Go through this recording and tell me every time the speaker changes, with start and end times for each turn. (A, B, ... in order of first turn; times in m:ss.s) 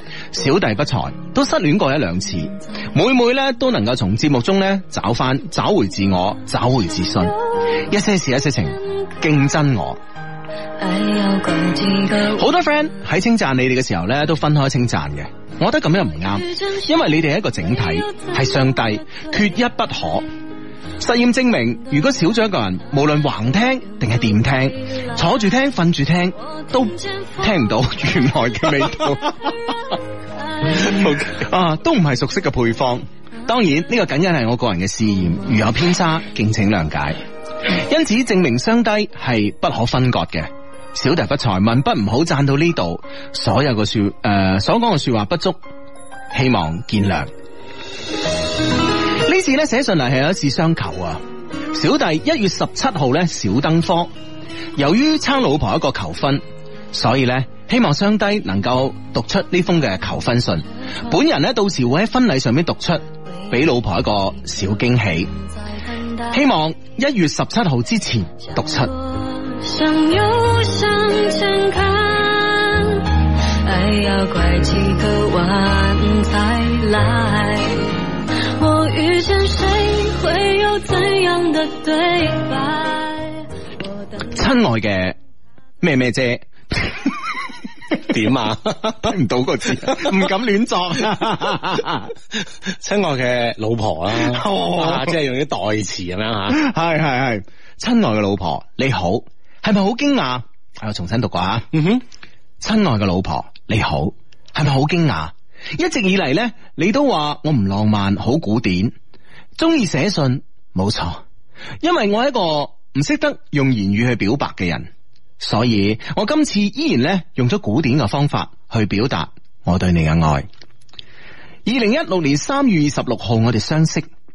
0:00.3-0:10.0 A
0:10.8-0:12.4 B
0:12.3-0:20.3 A
0:16.5-0:16.9 B
0:17.8-0:19.2 B
0:21.0-0:29.5 A
0:26.8-0:27.5 B
0:30.4-0:30.9 B
0:30.8-0:45.6 A
0:46.3-0:47.3 A
0:49.1-0:51.2 A
0:51.7-0:54.1 A
0:54.8-1:05.3 A
1:05.8-1:06.4 B
1:06.3-1:08.9 A
1:08.7-1:18.0 B
1:18.6-1:23.4 B
1:24.3-1:25.2 A
1:25.8-1:27.2 A
1:28.0-1:29.1 C
1:29.0-1:32.1 A
1:29.8-1:30.3 C
1:32.4-1:36.6 C
1:34.2-1:35.1 A
1:36.5-1:41.7 A
1:41.7-1:42.0 C
1:42.6-1:48.9 A
1:49.6-1:51.2 A
1:51.8-1:54.9 A
1:55.4-2:00.5 A
2:01.6-2:04.1 A